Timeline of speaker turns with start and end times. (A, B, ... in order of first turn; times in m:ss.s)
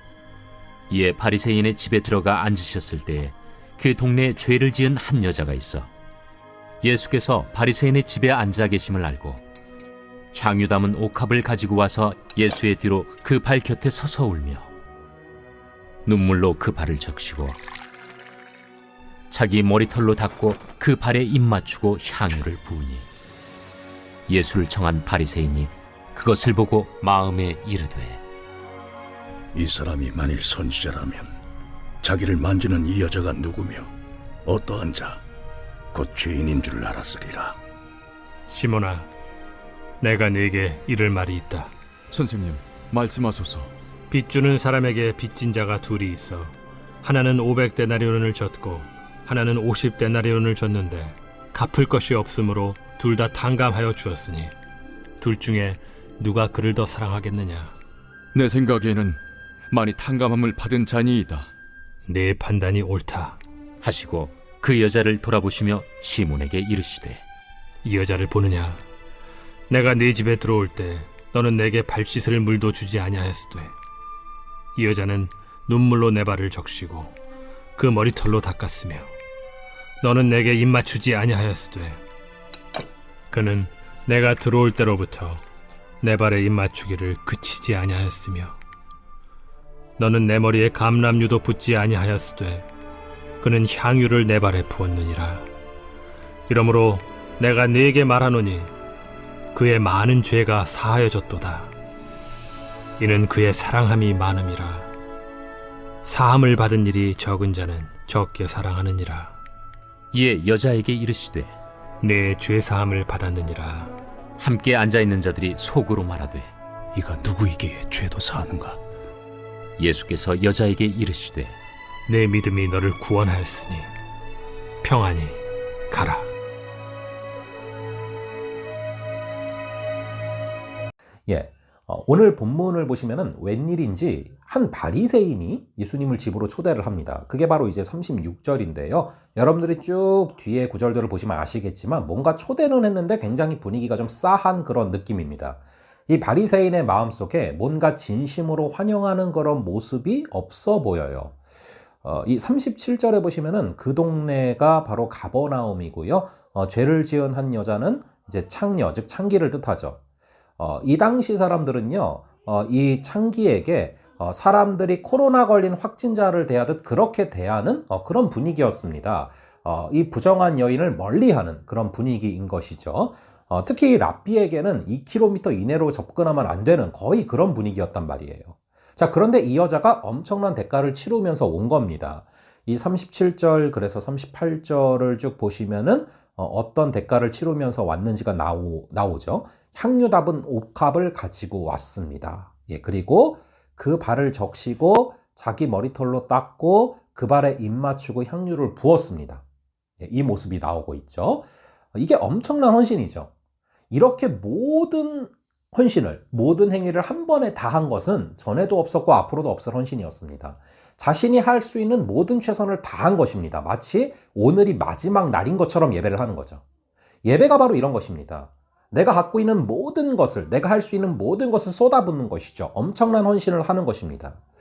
0:00.9-0:05.9 A
0:06.8-0:09.4 A
0:10.3-0:14.7 A
0:16.1-0:17.6 A
0:19.3-0:23.1 A
0:24.3-0:28.2 A
0:29.5-0:31.4 B
0:32.0-0:33.9 B
0:34.4-0:35.2 B
0:35.9-0:37.6 B
0:38.5-0:39.1 C
0:40.0-0:41.7 C
0:42.1-0:43.7 D
0:44.1-0:54.5 C
0:55.2-0:57.7 C
0:58.3-1:01.5 D
1:02.1-1:03.4 C
1:03.8-1:07.2 A
1:07.8-1:08.8 C
1:09.7-1:13.7 C
1:14.8-1:17.1 C
1:17.8-1:19.1 C
1:20.0-1:22.0 C
1:23.3-1:25.4 C
1:26.0-1:28.6 C
1:30.0-1:32.7 C
1:33.4-1:35.5 C
1:36.5-1:38.7 C
1:39.5-1:41.7 C
1:43.0-1:44.9 C
1:46.0-1:49.4 C
1:50.1-1:51.5 A
1:52.0-1:54.0 C
1:54.4-1:56.5 A
1:57.0-1:58.8 B
1:59.8-2:01.6 A
2:02.1-2:03.9 C
2:04.8-2:06.3 C
2:11.3-2:31.4 E
2:32.0-2:40.0 E
2:40.6-3:19.4 E
3:20.0-3:23.3 E
3:23.9-3:36.6 E
3:37.2-3:44.4 E